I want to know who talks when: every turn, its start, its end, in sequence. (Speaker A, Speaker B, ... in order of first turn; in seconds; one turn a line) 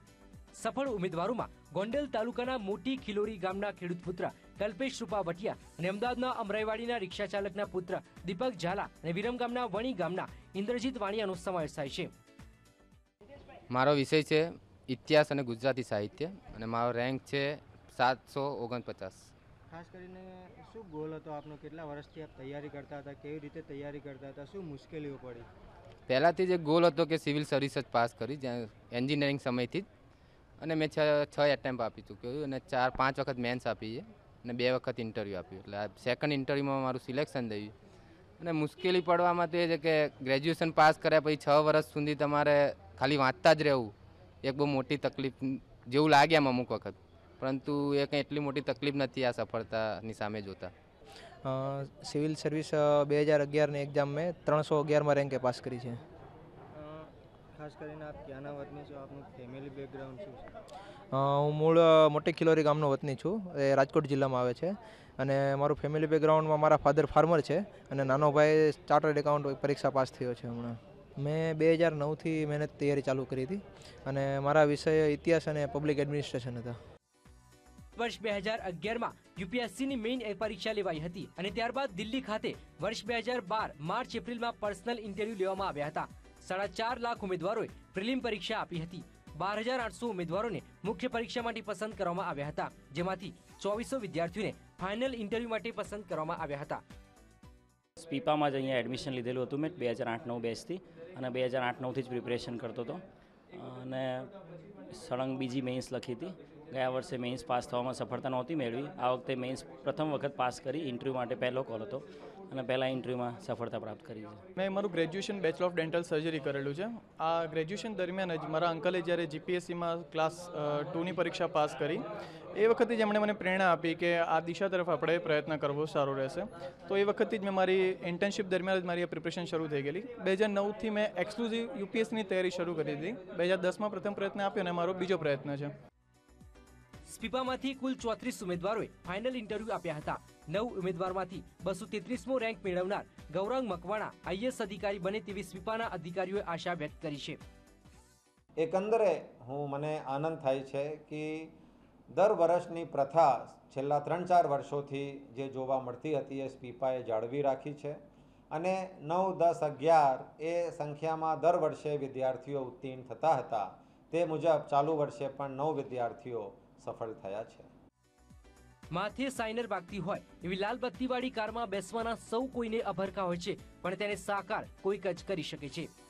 Speaker A: 0.6-12.1
Speaker B: 13.7-19.3
Speaker C: 19.7-25.4
Speaker B: 26.1-29.9
Speaker B: 30.6-37.7
Speaker B: 38.4-50.7
Speaker D: 51.4-56.0
Speaker C: 56.8-57.0
Speaker C: 57.6-60.4
Speaker D: 61.1-76.8
Speaker A: 78.0-96.8
Speaker E: 98.0-103.0
Speaker E: 103.5-104.3
Speaker E: 104.9-114.4
Speaker F: 114.6-135.7
Speaker A: 137.1-147.4
Speaker G: 148.6-151.5
Speaker G: 152.1-158.0
Speaker G: 158.5-167.7
Speaker A: 168.9-175.9